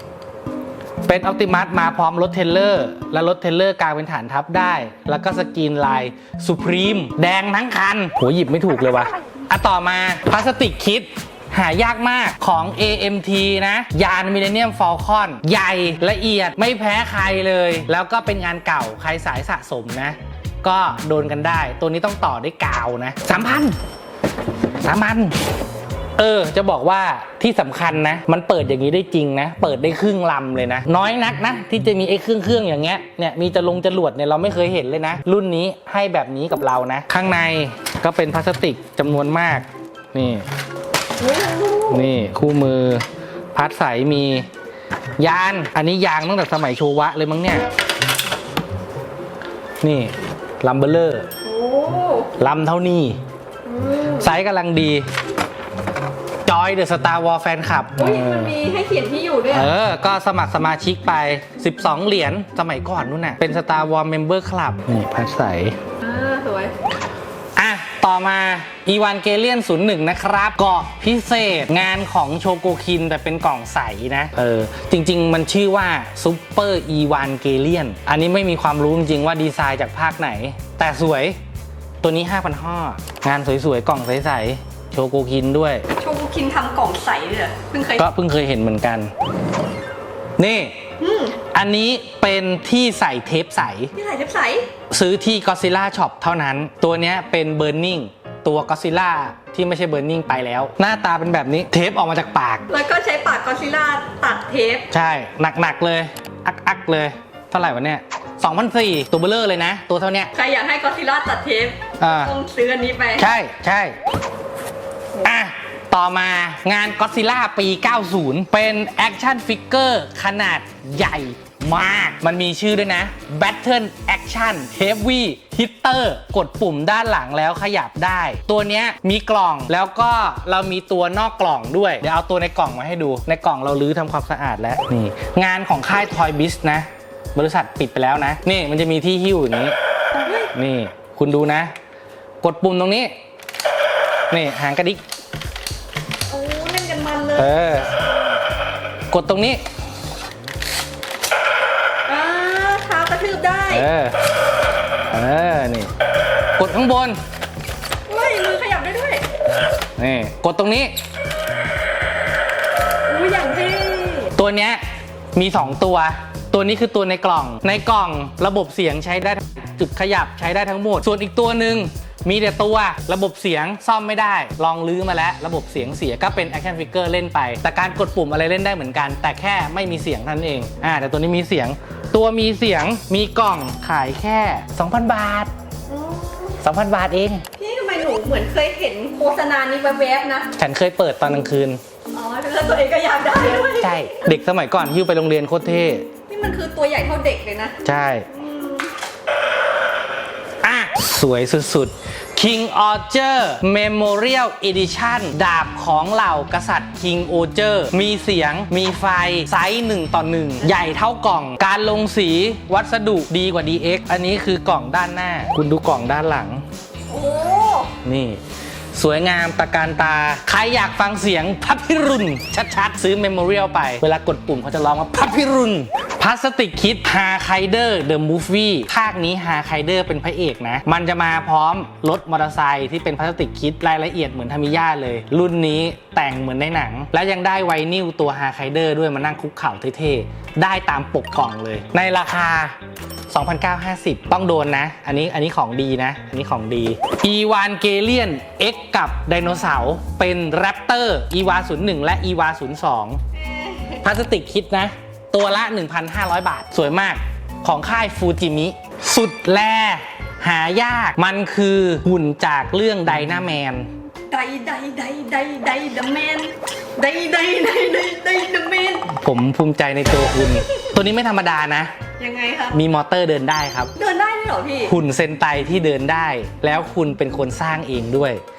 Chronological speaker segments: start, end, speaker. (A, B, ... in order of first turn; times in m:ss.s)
0:01.0-0:23.8 A
0:24.8-0:25.4 A
0:26.2-0:40.4 A
0:41.2-0:42.0 B
0:41.9-0:44.5 A
0:45.2-0:47.7 A
0:49.8-0:51.3 A
0:51.4-0:52.3 B
0:52.4-0:53.2 A
0:53.6-0:54.3 B
0:54.2-0:55.0 A
0:56.4-0:58.5 A
0:58.0-0:59.7 B
0:59.5-1:05.8 A
1:06.0-1:06.7 B
1:07.6-1:21.4 A
1:22.0-1:25.8 A
1:26.0-1:28.1 B
1:28.0-1:29.1 A
1:30.4-1:30.8 A
1:31.0-1:31.4 B
1:31.5-1:33.9 A
1:33.9-1:34.7 B
1:34.9-1:42.7 A
1:42.7-1:44.9 B
1:44.9-1:50.3 A
1:50.3-1:53.3 B
1:52.0-1:52.3 A
1:53.2-1:54.0 A
1:55.2-2:19.7 A
2:20.2-2:20.5 B
2:20.5-2:21.7 A
2:22.4-2:23.1 A
2:24.3-2:25.0 A
2:26.3-2:27.9 B
2:27.4-2:27.9 A
2:29.1-2:29.6 A
2:32.0-2:33.9 B
2:33.7-2:34.1 A
2:35.1-2:35.9 A
2:36.6-2:37.2 A
2:38.1-2:39.3 B
2:40.0-2:40.9 A
2:43.0-2:44.3 B
2:44.4-2:44.8 A
2:45.3-3:05.5 A
3:05.9-3:06.6 B
3:06.6-3:07.4 A
3:07.6-3:10.5 B
3:10.6-3:11.8 A
3:12.1-3:14.3 B
3:13.6-3:16.1 A
3:16.3-3:17.8 B
3:17.8-3:18.3 A
3:18.3-3:18.9 B
3:20.6-3:36.6 A
3:37.1-3:37.9 B
3:38.0-3:38.4 A
3:38.9-4:02.8 A
4:03.3-4:13.2 A
4:13.3-4:14.0 B
4:14.0-4:23.9 A
4:24.3-4:29.1 B
4:29.1-4:31.9 A
4:32.2-4:32.8 B
4:32.7-4:33.9 A
4:34.0-4:34.9 B
4:34.9-4:38.4 A